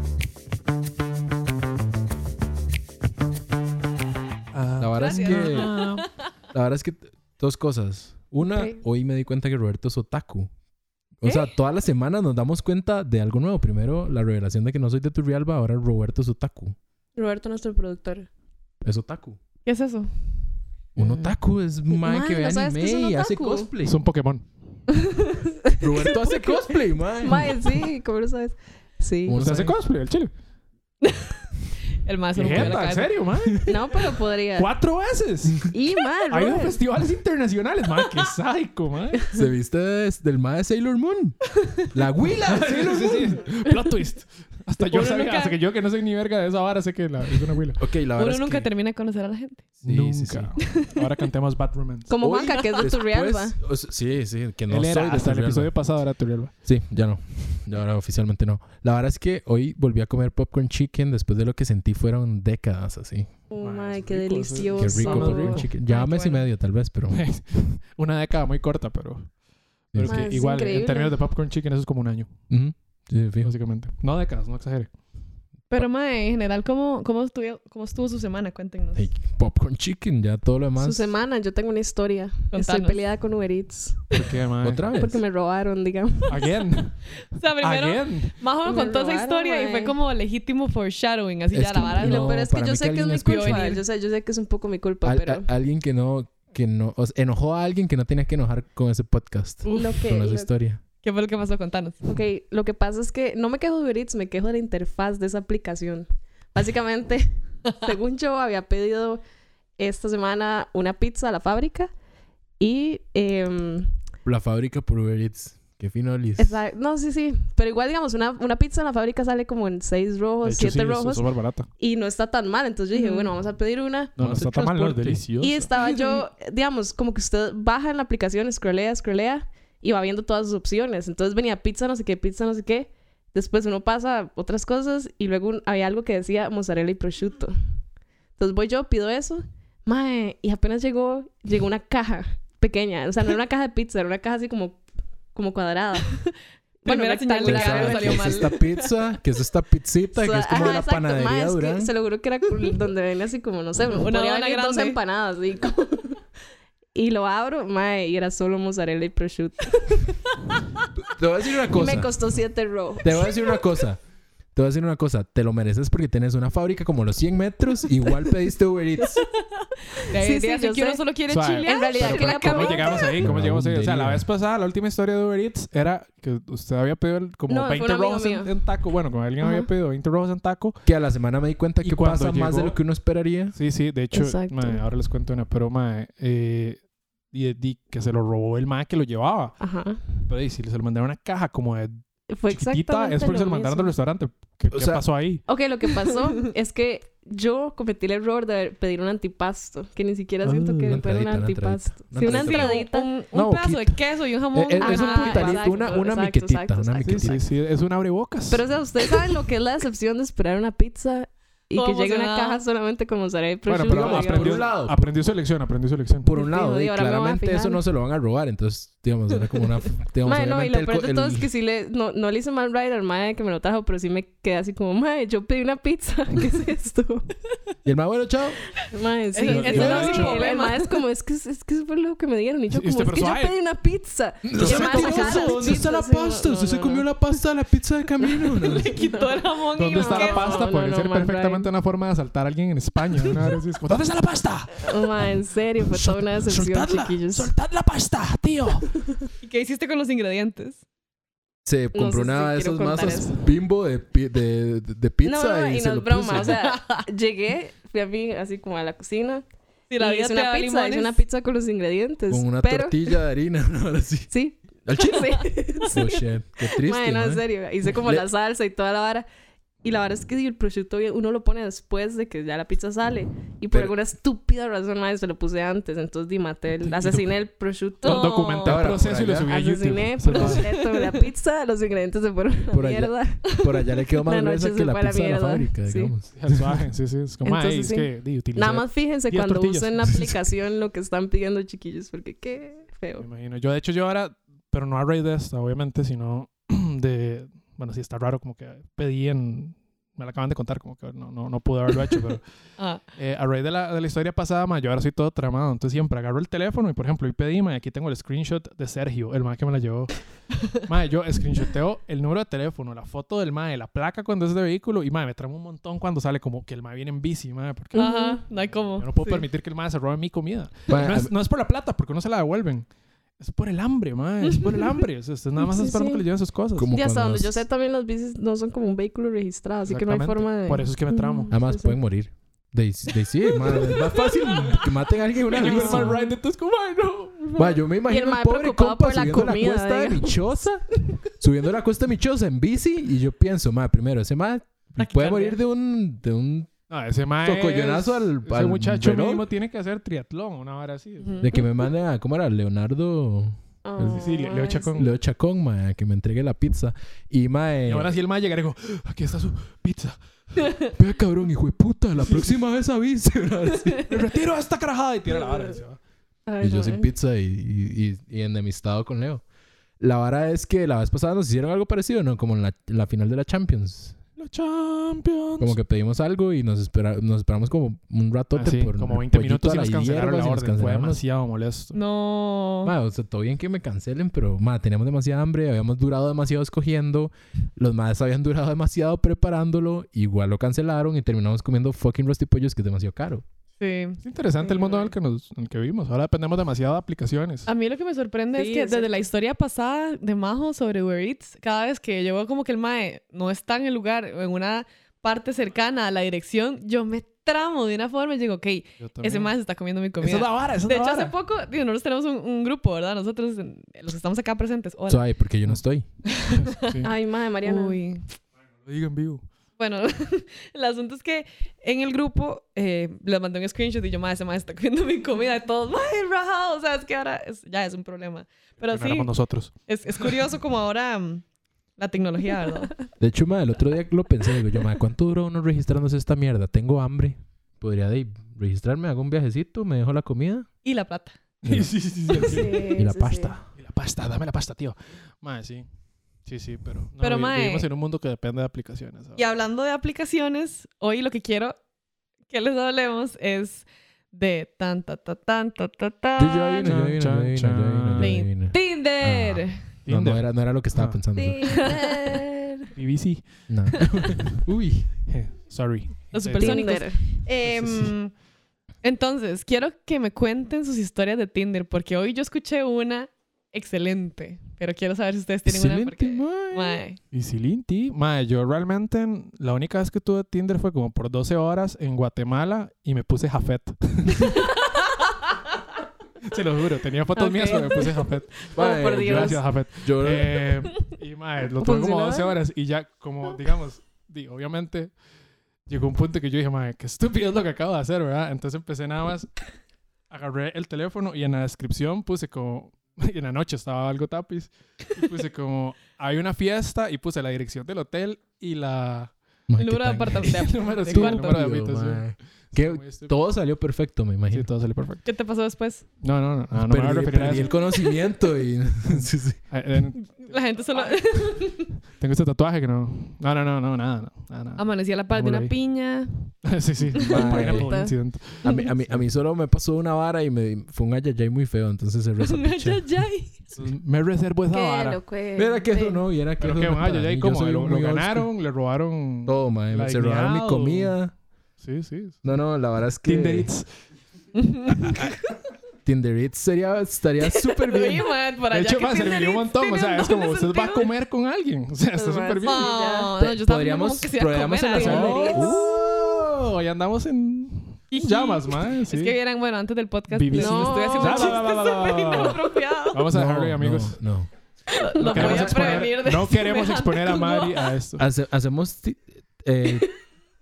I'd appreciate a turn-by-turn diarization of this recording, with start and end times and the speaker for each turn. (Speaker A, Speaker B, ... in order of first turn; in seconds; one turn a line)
Speaker A: 4.5-6.0
Speaker B: 4.8-5.8
Speaker C: 5.0-6.1
Speaker B: 6.5-10.5
Speaker D: 8.4-8.8
Speaker B: 11.2-16.8
Speaker D: 17.1-18.3
Speaker B: 18.8-19.4
Speaker C: 19.6-20.1
Speaker B: 20.9-24.0
Speaker A: 21.0-21.3
Speaker D: 22.0-23.7
Speaker A: 23.8-24.5
Speaker D: 25.7-26.6
Speaker B: 25.8-27.7
Speaker D: 27.2-29.4
Speaker B: 29.2-29.8
Speaker A: 29.3-30.3
Speaker C: 31.0-33.1
Speaker A: 32.3-34.0
Speaker B: 32.4-32.8
Speaker D: 33.6-34.7
Speaker A: 34.5-35.7
Speaker D: 35.7-36.8
Speaker A: 36.3-39.3
Speaker B: 39.3-43.4
Speaker A: 42.4-47.8
Speaker C: 44.8-45.6
Speaker B: 47.8-48.7
Speaker C: 48.1-49.7
Speaker B: 49.8-50.5
Speaker A: 49.8-52.1
Speaker C: 50.8-51.0
Speaker D: 52.1-53.6
Speaker B: 52.2-55.7
Speaker C: 52.5-52.8
Speaker A: 54.7-56.5
Speaker B: 56.6-63.3
Speaker D: 63.5-65.7
Speaker A: 63.6-65.7
Speaker B: 64.7-67.3
Speaker C: 65.9-66.4
Speaker A: 67.1-69.3
Speaker B: 69.9-70.3
Speaker A: 69.9-72.3
Speaker D: 70.0-71.1
Speaker B: 72.5-73.5
Speaker A: 73.4-74.9
Speaker C: 75.7-79.0
Speaker B: 78.9-81.1
Speaker D: 80.8-84.2
Speaker C: 82.5-83.0
Speaker A: 84.1-84.9
Speaker B: 84.6-85.2
Speaker D: 84.9-86.5
Speaker A: 86.3-87.0
Speaker C: 87.3-92.3
Speaker A: 87.6-88.3
Speaker D: 88.6-90.0
Speaker B: 91.5-93.8
Speaker D: 91.8-95.5
Speaker C: 93.2-93.8
Speaker B: 95.0-100.8
Speaker C: 99.7-100.0
Speaker D: 99.7-100.5
Speaker C: 101.0-102.0
Speaker D: 102.0-107.3
Speaker D: 107.8-109.2
Speaker D: 109.8-111.9
Speaker D: 112.6-113.9
Speaker B: 114.2-116.6
Speaker D: 116.4-121.2
Speaker A: 120.4-121.7
Speaker D: 121.8-124.1
Speaker C: 122.9-123.3
Speaker B: 124.2-125.2
Speaker A: 124.2-125.7
Speaker D: 125.4-137.5
Speaker C: 125.8-126.1
Speaker D: 138.4-144.8
Speaker D: 145.3-146.2
Speaker D: 146.8-148.6
Speaker C: 146.8-148.6
Speaker B: 147.4-151.9
Speaker D: 150.1-156.2
Speaker C: 153.9-155.0
Speaker D: 156.9-160.2
Speaker B: 161.2-162.1
Speaker D: 161.7-163.5
Speaker B: 163.0-164.0
Speaker B: 164.5-169.2
Speaker D: 169.6-171.0
Speaker C: 170.1-173.2
Speaker A: 171.3-180.8
Speaker D: 171.6-173.2
Speaker B: 173.2-174.2
Speaker D: 177.5-178.5
Speaker D: 179.4-179.7
Speaker B: 180.8-183.6
Speaker A: 181.8-182.8
Speaker A: 183.5-189.5
Speaker D: 184.1-184.8
Speaker D: 189.6-190.0
Speaker A: 190.3-195.4
Speaker D: 192.3-193.9
Speaker B: 194.7-195.0
Speaker D: 195.5-203.1
Speaker B: 200.4-202.7
Speaker C: 202.2-206.1
Speaker B: 203.3-204.0
Speaker B: 204.5-207.4
Speaker D: 204.8-207.4
Speaker A: 207.0-208.6
Speaker D: 208.5-214.7
Speaker C: 211.7-212.6
Speaker A: 213.7-216.3
Speaker B: 213.8-215.0
Speaker B: 216.2-221.5
Speaker D: 216.3-217.8
Speaker D: 220.2-227.3
Speaker B: 227.8-228.6
Speaker D: 228.8-237.1
Speaker C: 229.3-231.0
Speaker B: 229.5-230.4
Speaker A: 232.7-233.5
Speaker B: 234.4-239.1
Speaker A: 234.6-235.7
Speaker C: 238.5-240.7
Speaker D: 239.1-241.7
Speaker A: 239.7-244.9
Speaker D: 244.8-247.5
Speaker A: 246.0-248.9
Speaker C: 249.4-250.8
Speaker B: 251.7-256.6
Speaker D: 251.9-253.4
Speaker D: 255.2-259.4
Speaker C: 256.4-257.0
Speaker C: 259.9-261.2
Speaker D: 260.0-263.1
Speaker B: 262.3-264.3
Speaker D: 264.3-269.2
Speaker B: 264.9-265.4
Speaker B: 265.9-268.2
Speaker D: 269.8-278.4
Speaker A: 276.9-277.3
Speaker A: 278.0-280.7
Speaker C: 278.0-278.9
Speaker B: 278.6-279.5
Speaker D: 279.4-286.1
Speaker C: 280.5-281.2
Speaker B: 282.7-286.8
Speaker A: 286.4-290.3
Speaker D: 287.4-293.2
Speaker A: 293.2-302.4
Speaker A: 303.2-310.1
Speaker A: 310.8-318.1
Speaker D: 317.9-318.4
Speaker C: 317.9-319.4
Speaker A: 319.0-322.9
Speaker B: 320.9-321.3
Speaker A: 323.4-326.9
Speaker D: 325.6-326.2
Speaker B: 326.8-327.6
Speaker D: 326.9-331.9
Speaker A: 329.9-331.5
Speaker B: 331.5-336.2
Speaker A: 333.6-334.8
Speaker A: 335.5-337.6
Speaker D: 335.6-336.1
Speaker B: 337.6-340.8
Speaker D: 338.1-340.4
Speaker B: 341.4-346.7
Speaker C: 345.0-345.6
Speaker A: 346.9-351.5
Speaker B: 347.4-349.4
Speaker B: 351.4-354.2
Speaker D: 353.8-355.0
Speaker A: 354.0-355.1
Speaker B: 354.9-358.1
Speaker A: 357.9-360.8
Speaker B: 360.9-364.1
Speaker A: 362.2-362.5
Speaker A: 364.0-366.0
Speaker D: 366.5-367.1
Speaker B: 366.6-369.4
Speaker B: 370.0-374.2
Speaker A: 374.4-375.8
Speaker B: 375.6-381.2
Speaker A: 378.5-382.0
Speaker C: 381.9-382.9
Speaker B: 382.8-393.4
Speaker C: 393.8-394.2
Speaker A: 394.2-397.7
Speaker D: 394.6-395.1
Speaker C: 397.7-415.2
Speaker D: 398.5-399.1
Speaker A: 409.0-409.5
Speaker A: 410.2-411.3
Speaker B: 415.1-416.0
Speaker C: 416.3-417.0
Speaker A: 416.5-417.1
Speaker D: 417.0-418.0
Speaker C: 417.6-418.2
Speaker A: 418.8-419.4
Speaker C: 419.8-429.3
Speaker A: 428.8-430.4
Speaker C: 429.9-431.4
Speaker C: 432.0-433.0
Speaker B: 433.2-440.7
Speaker C: 440.8-441.4
Speaker A: 441.6-442.9
Speaker D: 442.3-443.6
Speaker B: 443.0-443.6
Speaker A: 443.7-445.8
Speaker A: 446.4-449.4
Speaker C: 447.2-447.9
Speaker C: 449.4-451.7
Speaker C: 452.5-456.9
Speaker B: 456.4-461.8
Speaker A: 456.8-458.4
Speaker C: 458.2-459.8
Speaker A: 460.1-461.2
Speaker D: 461.4-462.9
Speaker C: 461.6-462.4
Speaker A: 462.9-463.5
Speaker B: 463.7-465.1
Speaker A: 465.3-467.0
Speaker C: 466.3-468.3
Speaker D: 466.6-467.2
Speaker A: 467.6-468.1
Speaker C: 469.0-477.2
Speaker B: 475.6-477.0
Speaker A: 477.3-484.7
Speaker A: 486.4-495.1
Speaker D: 487.3-489.6
Speaker B: 488.7-490.6
Speaker D: 491.8-492.5
Speaker A: 495.9-499.6
Speaker A: 500.3-509.3
Speaker B: 509.7-514.7
Speaker C: 509.8-511.6
Speaker A: 510.4-513.4
Speaker A: 514.5-515.2
Speaker C: 515.2-516.0
Speaker A: 516.2-517.8
Speaker B: 516.7-519.6
Speaker A: 519.1-525.7
Speaker C: 520.2-521.9
Speaker C: 524.8-526.5
Speaker A: 526.6-529.2
Speaker B: 527.1-527.9
Speaker D: 527.4-528.8
Speaker B: 528.6-533.0
Speaker C: 532.4-533.7
Speaker A: 533.8-535.2
Speaker D: 534.7-536.2
Speaker B: 535.5-538.5
Speaker A: 536.6-541.1
Speaker B: 539.5-541.3
Speaker A: 541.8-542.4
Speaker B: 542.4-543.7
Speaker A: 543.2-543.9
Speaker C: 544.5-545.4
Speaker A: 544.9-545.3
Speaker B: 546.0-548.3
Speaker C: 547.4-551.1
Speaker A: 548.7-552.9
Speaker D: 552.1-553.4
Speaker C: 552.6-555.8
Speaker B: 553.4-556.6
Speaker A: 554.9-559.3
Speaker D: 555.1-555.8
Speaker C: 558.1-563.2
Speaker A: 560.3-564.2
Speaker D: 560.5-562.7
Speaker B: 563.3-564.5
Speaker C: 564.9-567.9
Speaker A: 565.2-568.2
Speaker B: 565.2-566.1
Speaker B: 568.2-570.1